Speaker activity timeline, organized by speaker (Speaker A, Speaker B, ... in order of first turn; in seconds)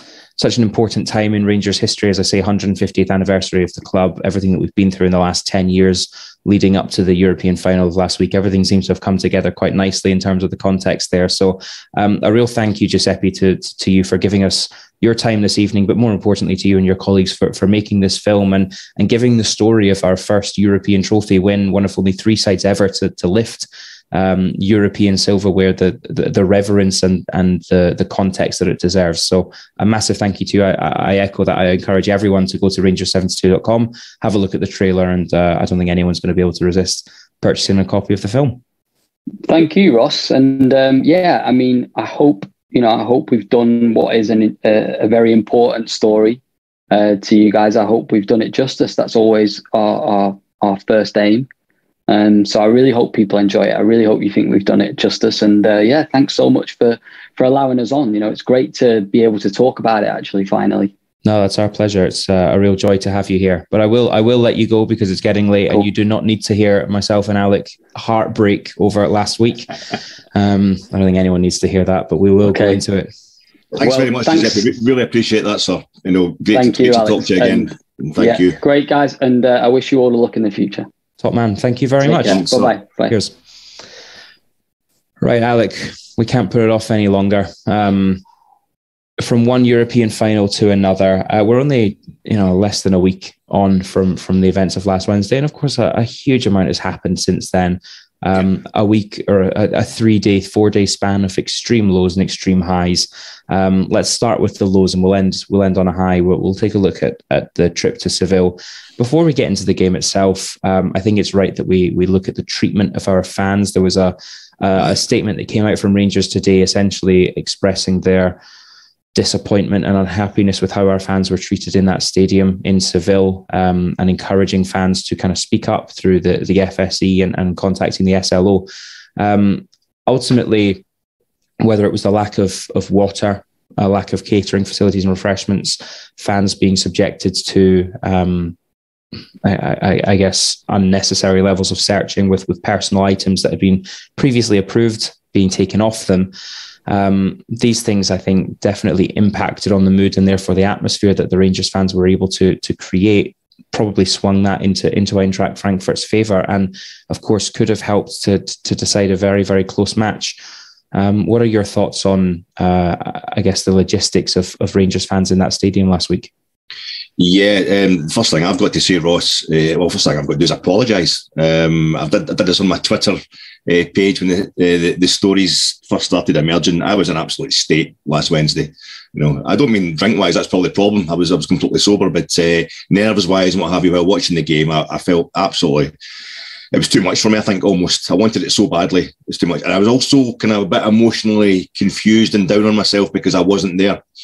Speaker A: 0.4-38.6, 61.2-69.7, 70.3-73.1, 81.2-83.3, 85.2-88.2, 89.2-118.4, 119.1-130.8, 131.6-138.5, 139.4-146.3, 146.9-160.4, 160.9-166.3
Speaker B: 39.5-46.4, 46.9-51.5, 52.1-60.9, 72.5-72.8, 73.8-74.7, 76.5-80.9, 82.0-83.1
Speaker C: 73.7-78.6, 167.2-185.9, 186.7-194.0